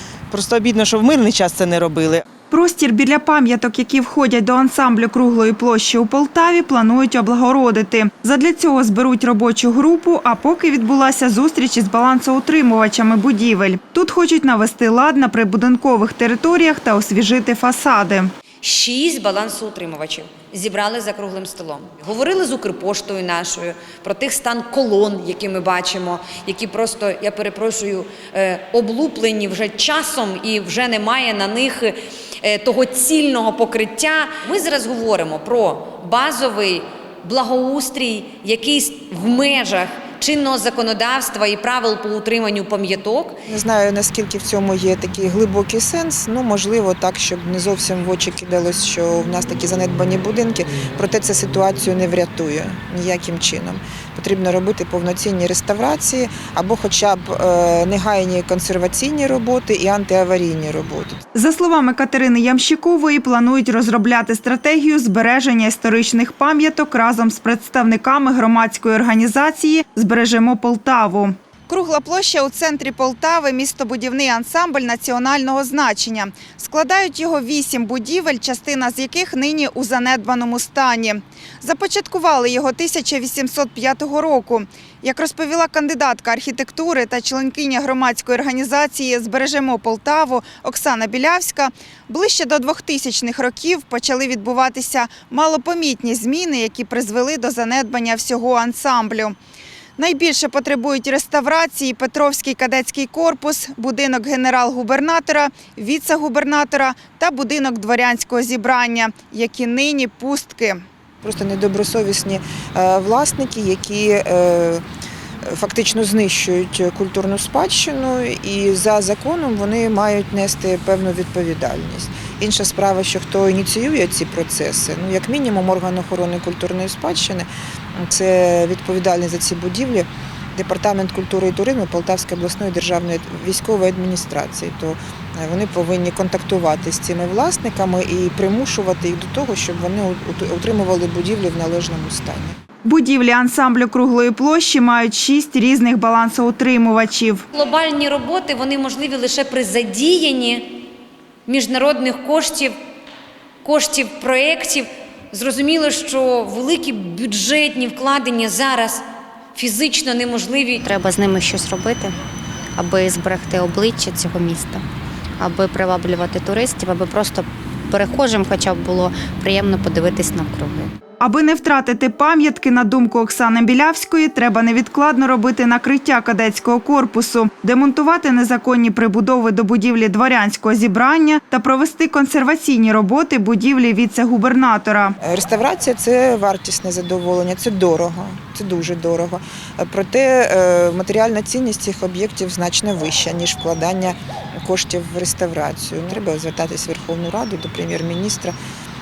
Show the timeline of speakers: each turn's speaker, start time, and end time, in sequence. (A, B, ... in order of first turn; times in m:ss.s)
0:00.3-0:02.2 A
0:02.5-0:18.3 B
0:18.6-0:43.4 C
0:43.5-1:01.2 D
1:01.3-1:39.4 B
1:40.0-1:50.8 B
1:51.2-1:54.8 D
1:55.4-2:22.5 D
2:22.8-2:27.4 B
2:27.5-2:30.8 C
2:31.4-2:32.7 C
2:33.6-2:39.0 C
2:39.5-2:40.9 C
2:40.8-2:42.2 E
2:42.8-2:44.8 E
2:45.4-2:51.0 E
2:51.2-3:05.2 B
3:05.2-3:18.5 D